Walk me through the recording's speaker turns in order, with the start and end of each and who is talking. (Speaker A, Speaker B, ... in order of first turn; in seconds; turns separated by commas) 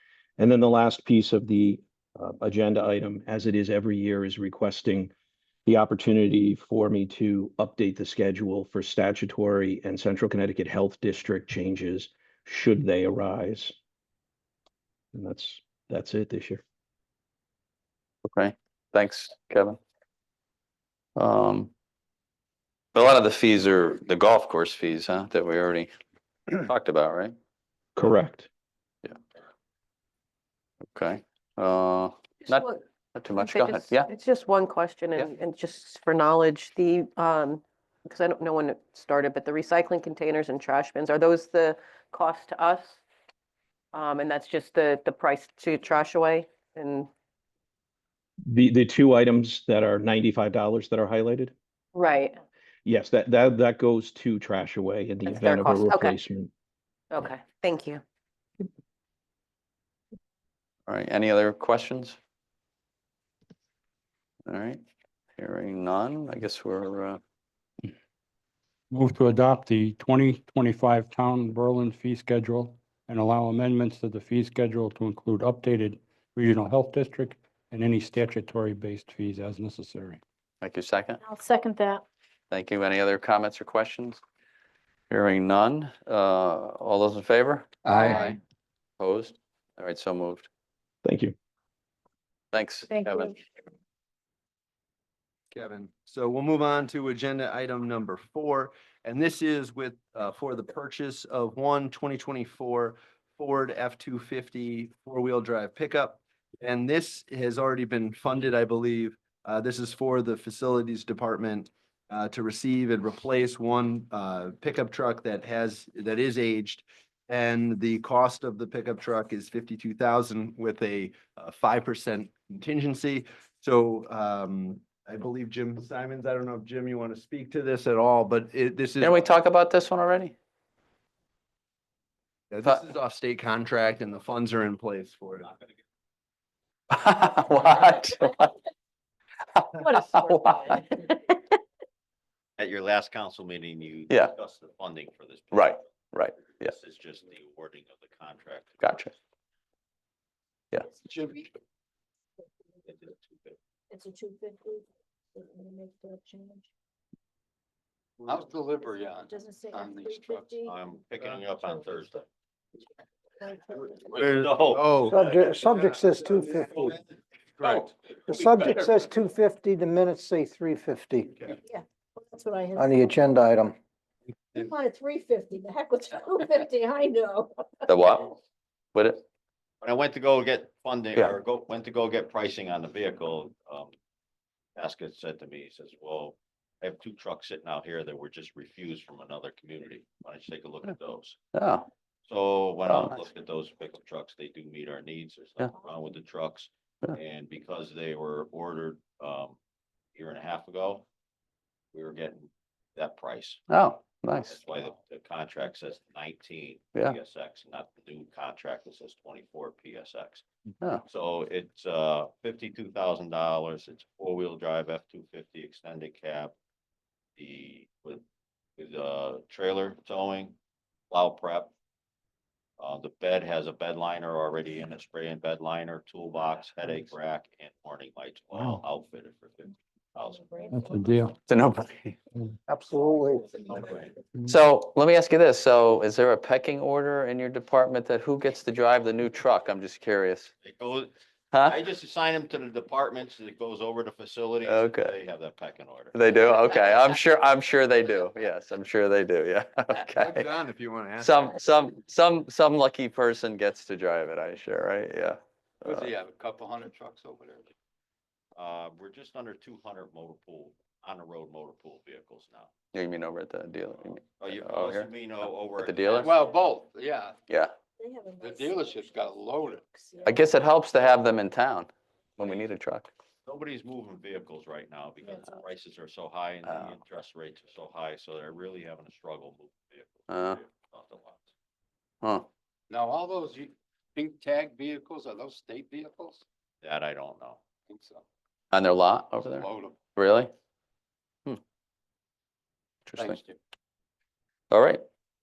Speaker A: 0.4-5.1, Speaker A: 5.7-13.8, Speaker A: 15.1-16.6, Speaker B: 18.2-19.8, Speaker B: 21.1-21.7, Speaker B: 22.9-25.9, Speaker B: 26.5-27.3, Speaker A: 27.9-28.5, Speaker B: 30.9-34.1, Speaker C: 32.5-43.0, Speaker C: 43.9-47.1, Speaker A: 48.5-51.5, Speaker C: 51.9-52.4, Speaker A: 52.9-56.5, Speaker C: 55.2-56.2, Speaker C: 57.1-58.0, Speaker B: 60.9-62.2, Speaker B: 64.5-64.8, Speaker B: 65.4-67.2, Speaker D: 68.9-80.2, Speaker B: 80.6-81.2, Speaker D: 81.2-82.0, Speaker B: 82.5-84.2, Speaker B: 85.1-88.3, Speaker E: 87.8-88.4, Speaker D: 88.1-88.4, Speaker B: 89.0-90.5, Speaker A: 91.0-91.3, Speaker B: 92.5-93.4, Speaker D: 92.9-93.4, Speaker F: 95.5-129.2, Speaker B: 129.0-130.3, Speaker F: 132.5-135.5, Speaker B: 136.9-138.5, Speaker B: 139.5-141.1, Speaker G: 139.8-140.8, Speaker H: 142.6-145.8, Speaker B: 145.5-146.7, Speaker H: 146.4-149.1, Speaker B: 148.8-149.1, Speaker E: 151.0-151.6, Speaker H: 152.8-153.6, Speaker G: 153.9-154.8, Speaker G: 155.4-156.6, Speaker E: 158.2-160.7, Speaker G: 159.3-160.7, Speaker H: 160.6-162.2, Speaker H: 164.1-165.4, Speaker F: 164.1-165.2, Speaker I: 165.0-166.9, Speaker E: 167.6-167.9, Speaker I: 168.2-171.5, Speaker G: 172.2-172.7, Speaker I: 172.7-173.8, Speaker G: 174.6-177.5, Speaker B: 177.9-178.3, Speaker B: 178.9-179.2, Speaker H: 179.8-183.9, Speaker H: 184.8-191.4, Speaker B: 191.5-191.9, Speaker H: 192.3-199.6, Speaker B: 192.8-193.2, Speaker H: 200.1-201.1, Speaker H: 201.9-203.6, Speaker B: 203.7-204.6, Speaker H: 204.4-210.4, Speaker H: 211.0-216.5, Speaker H: 217.4-218.2, Speaker H: 218.8-220.5, Speaker H: 221.1-221.7, Speaker H: 222.8-230.8, Speaker D: 230.7-231.3, Speaker G: 230.8-231.3, Speaker B: 231.4-232.2, Speaker I: 232.7-234.1, Speaker B: 234.4-240.5, Speaker H: 240.6-241.1, Speaker B: 241.5-241.8, Speaker H: 241.7-246.1, Speaker B: 244.6-245.2, Speaker B: 246.1-250.5, Speaker F: 250.1-251.5, Speaker B: 251.2-256.1, Speaker E: 255.8-257.7, Speaker H: 258.5-262.8, Speaker B: 262.9-266.3, Speaker H: 264.4-266.5, Speaker E: 266.1-267.4, Speaker B: 267.5-267.7, Speaker G: 268.0-269.3, Speaker E: 268.4-269.9, Speaker G: 270.0-270.5, Speaker B: 270.2-273.1, Speaker H: 273.4-281.5, Speaker B: 276.6-276.9, Speaker B: 280.3-280.6, Speaker B: 282.2-282.5, Speaker E: 282.9-286.4, Speaker H: 286.8-287.6, Speaker E: 287.9-288.2, Speaker B: 288.7-290.5, Speaker E: 289.4-290.0, Speaker B: 293.1-293.4, Speaker E: 293.2-293.6, Speaker B: 294.7-295.0